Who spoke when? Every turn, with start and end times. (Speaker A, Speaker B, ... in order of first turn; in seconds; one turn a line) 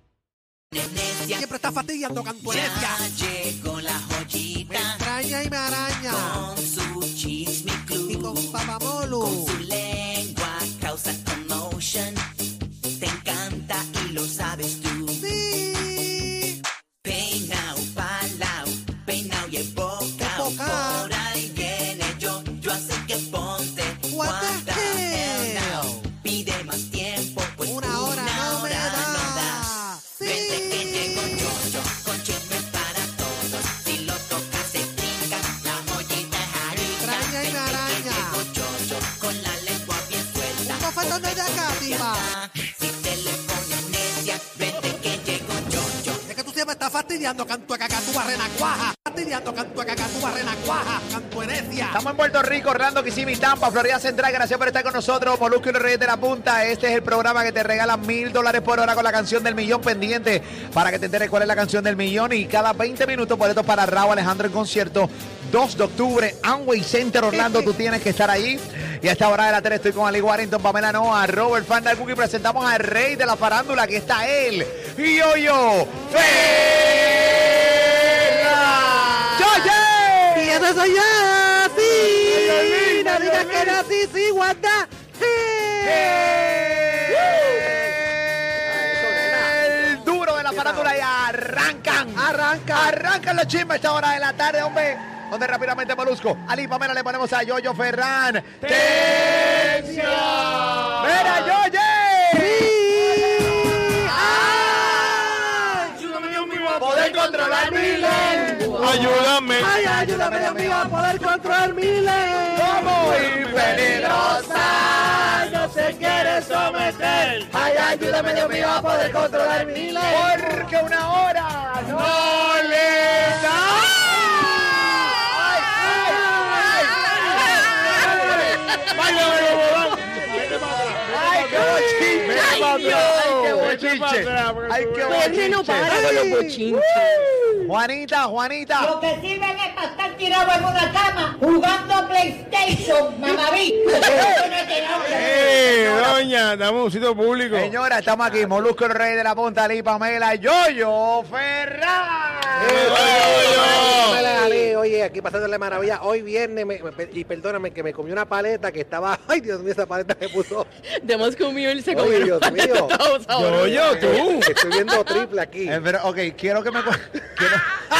Speaker A: 0.7-1.5
Speaker B: 1.3-3.0
Speaker A: 2.4-5.0
Speaker B: 4.7-6.5
Speaker A: 6.1-12.2
Speaker B: 8.1-9.6
Speaker A: 13.0-15.4
Speaker B: 15.2-16.6
Speaker A: 17.0-46.2
Speaker B: 20.2-21.1
Speaker B: 24.1-26.1
Speaker B: 27.6-31.3
Speaker B: 36.7-38.4
Speaker B: 40.6-42.3
Speaker B: 46.2-52.0
Speaker C: 51.9-78.4
Speaker C: 79.3-80.7
Speaker B: 80.3-86.3
Speaker D: 82.3-83.7
Speaker E: 82.3-83.8
Speaker C: 85.8-100.0
Speaker E: 87.1-87.8
Speaker E: 88.6-91.0
Speaker E: 92.1-93.0
Speaker D: 98.6-101.2
Speaker C: 101.0-102.7
Speaker B: 102.3-105.6
Speaker C: 104.8-105.2
Speaker F: 106.7-109.2
Speaker C: 106.8-108.9
Speaker B: 108.0-113.0
Speaker D: 108.8-109.8
Speaker C: 110.4-110.9
Speaker C: 112.5-115.2
Speaker D: 112.8-114.0
Speaker B: 113.9-120.6
Speaker F: 114.1-114.3
Speaker D: 115.4-115.7
Speaker E: 117.8-120.2
Speaker C: 120.1-129.7
Speaker F: 127.4-127.7
Speaker D: 128.0-135.4
Speaker F: 128.3-128.8
Speaker C: 131.0-136.1
Speaker F: 131.9-133.7
Speaker F: 135.0-137.2
Speaker B: 135.9-136.6
Speaker C: 137.6-138.9
Speaker G: 138.8-145.7
Speaker D: 145.1-147.7
Speaker C: 147.5-154.2
Speaker E: 148.2-148.6
Speaker E: 152.6-160.7
Speaker D: 152.6-154.2
Speaker F: 160.8-165.2
Speaker E: 161.9-162.9
Speaker D: 163.3-164.6
Speaker E: 163.8-165.8
Speaker C: 165.7-167.7